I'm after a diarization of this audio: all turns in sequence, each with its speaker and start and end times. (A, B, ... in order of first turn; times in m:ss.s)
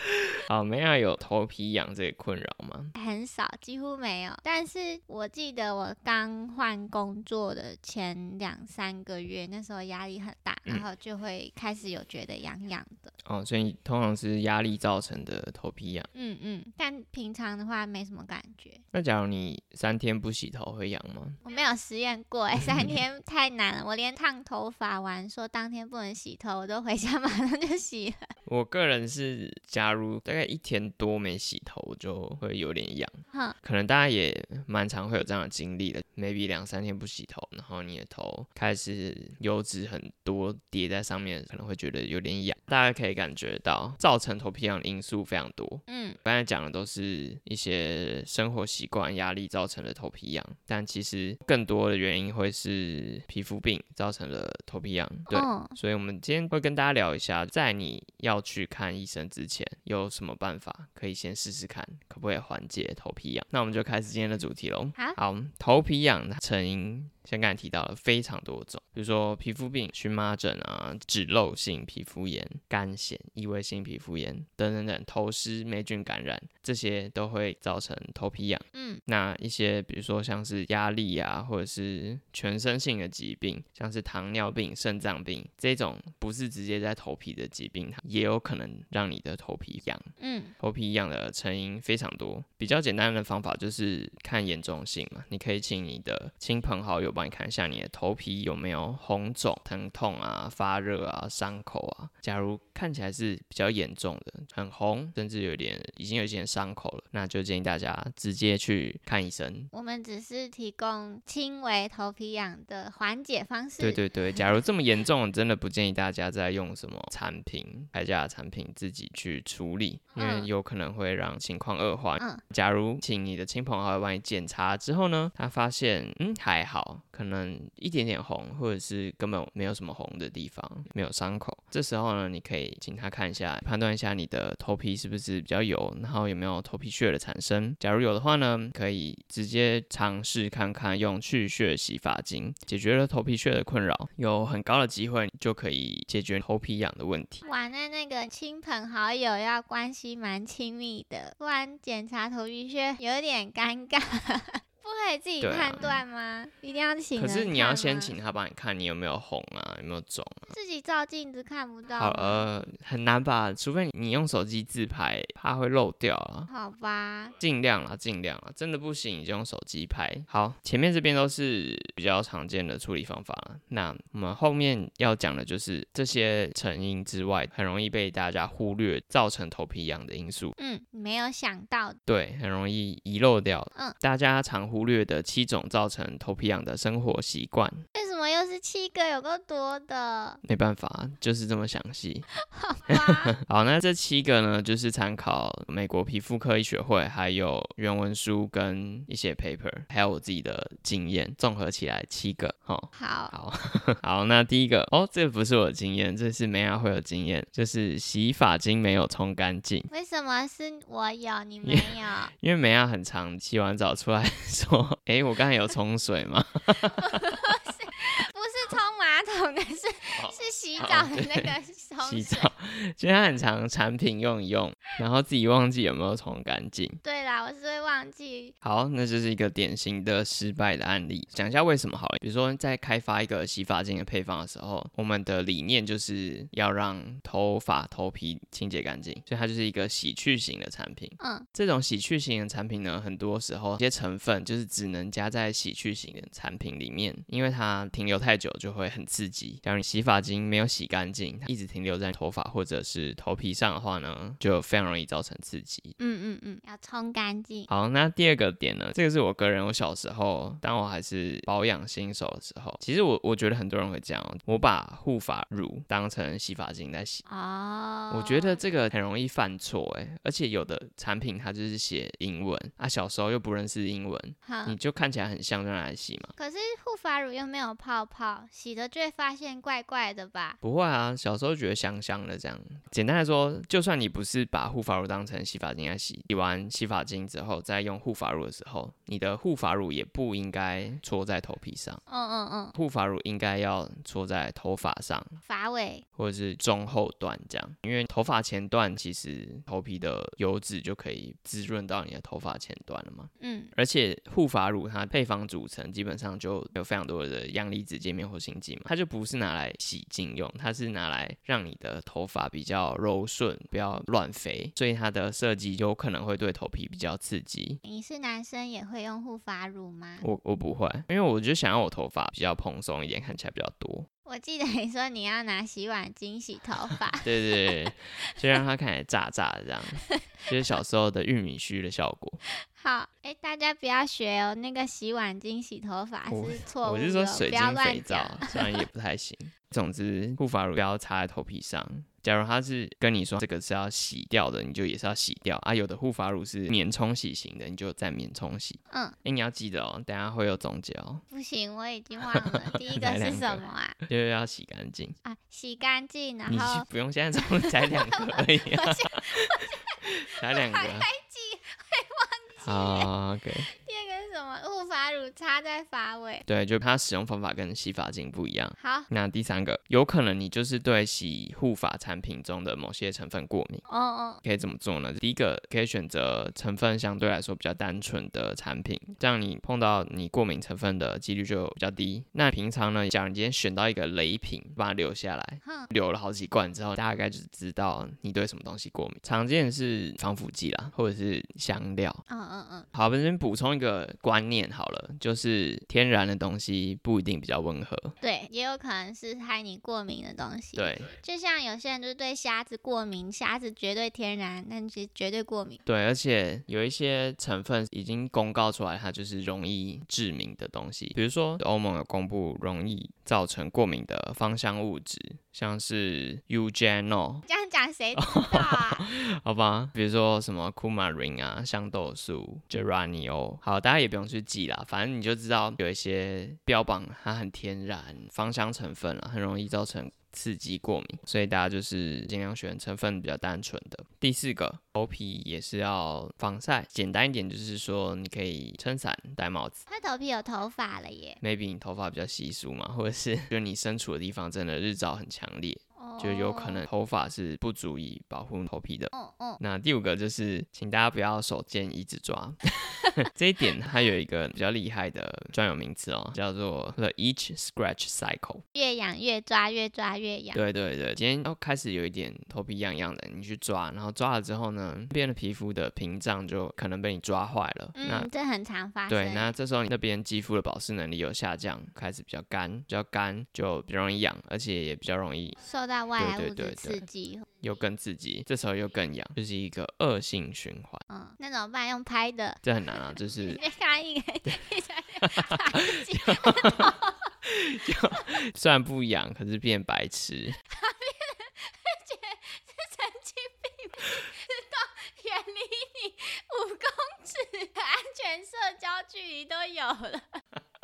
0:00.5-0:02.9 A
0:02.9-0:13.1 B
0:13.2-0:16.1 A
0:16.1-0:18.8 B
0:18.9-0:21.4 A
0:21.4-0:28.2 B
0:28.4-1:49.7 A
0:45.9-0:46.2 B
0:55.3-0:55.7 B
1:18.7-1:19.0 B
1:30.2-1:30.5 B
1:49.7-1:54.0 B
1:53.8-2:27.4 A
2:00.2-2:00.5 B
2:27.4-2:38.1 B
2:35.4-2:36.0 A
2:37.2-2:40.5 A
2:40.5-2:42.5 B
2:41.9-2:46.5 A
2:46.5-2:47.3 B
2:47.4-3:00.6 A
3:00.6-3:02.0 B
3:02.0-3:07.8 A
3:07.9-3:10.4 B
3:10.4-3:12.3 A
3:12.5-3:13.3 B
3:12.9-3:29.9 A
3:22.9-3:23.3 B
3:29.9-3:32.3 B
3:31.6-3:37.2 A
3:37.0-3:42.5 B
3:40.2-3:47.0 A
3:47.0-3:48.5 B
3:48.6-4:15.9 A
4:01.2-4:01.5 B
4:16.0-4:17.7 B
4:17.7-4:27.2 A
4:27.2-4:28.6 B
4:28.1-4:36.3 A
4:34.4-4:34.8 B
4:36.4-4:40.6 B
4:40.6-4:52.0 A
4:52.1-4:52.7 B
4:52.7-4:55.4 A
4:55.4-4:56.0 B
4:56.2-5:17.8 A
5:03.4-5:03.7 B
5:17.8-5:20.2 B
5:20.2-5:24.1 A
5:24.2-5:27.8 B
5:27.2-5:32.4 A
5:32.7-5:38.8 B
5:36.3-5:51.2 A
5:48.9-5:49.2 B
5:51.3-5:54.0 B
5:52.7-5:55.2 A
5:55.2-5:56.9 B
5:56.4-5:59.6 A
5:57.4-6:00.0 B
6:00.2-6:01.1 A
6:00.5-6:03.1 B
6:02.6-6:03.7 A
6:03.7-6:06.4 B
6:06.4-6:13.8 A
6:08.8-6:09.1 B
6:13.9-6:14.4 B
6:14.4-6:32.2 A
6:25.6-6:25.9 B
6:32.3-6:32.9 B
6:32.9-6:38.1 A
6:38.2-6:45.8 B
6:40.7-6:41.1 A
6:45.8-6:57.4 A
6:57.4-6:59.0 B
6:58.2-7:19.8 A
7:19.9-7:21.4 B
7:21.4-7:32.6 A
7:26.0-7:26.9 B
7:29.1-7:29.6 B
7:33.2-7:38.6 A
7:38.7-7:40.6 B
7:40.5-7:48.3 A
7:48.0-7:49.5 B
7:49.1-7:55.6 A
7:55.6-7:57.5 B
7:56.2-7:57.0 A
7:57.6-8:01.0 A
8:01.1-8:07.3 B
8:02.6-8:03.6 A
8:05.2-8:06.9 A
8:07.4-8:10.6 A
8:10.7-8:20.4 B